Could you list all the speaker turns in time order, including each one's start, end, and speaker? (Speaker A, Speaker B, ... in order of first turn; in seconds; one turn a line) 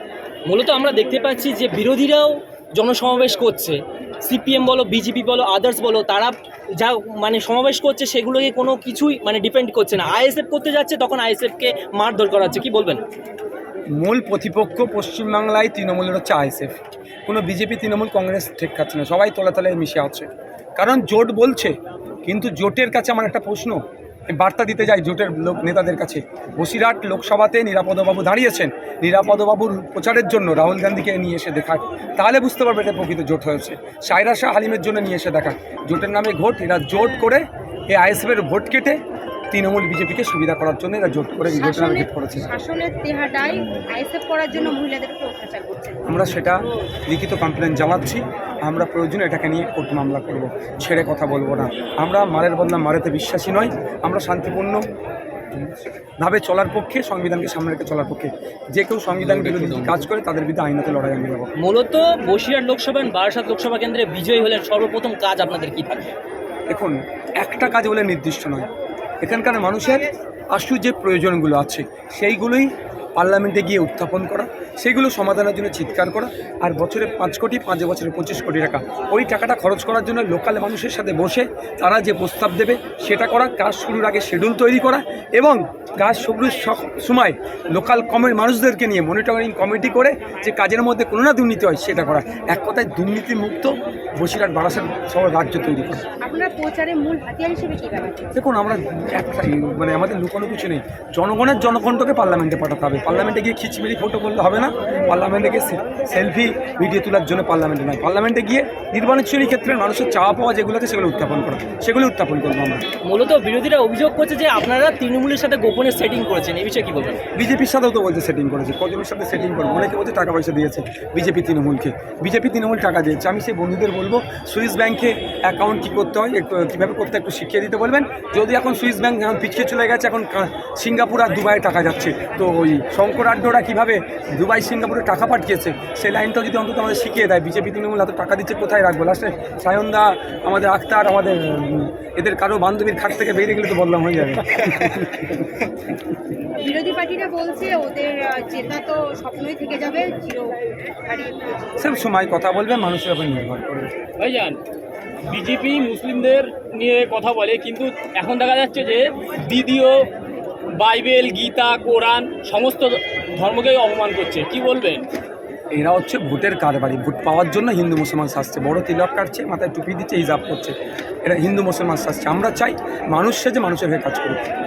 Speaker A: 0.5-13.0
Speaker B: 13.9-16.7
Speaker B: 17.3-42.5
Speaker C: 41.5-46.1
Speaker B: 46.0-54.8
Speaker B: 56.2-61.5
Speaker D: 59.2-60.0
Speaker A: 61.6-66.1
Speaker B: 66.7-68.7
Speaker B: 69.2-96.1
Speaker C: 96.2-98.3
Speaker B: 98.3-112.8
Speaker A: 113.1-117.2
Speaker B: 117.3-145.5
Speaker C: 146.6-151.8
Speaker B: 151.8-153.9
Speaker D: 154.2-154.6
Speaker D: 155.2-160.1
Speaker D: 160.8-165.0
Speaker B: 165.7-174.4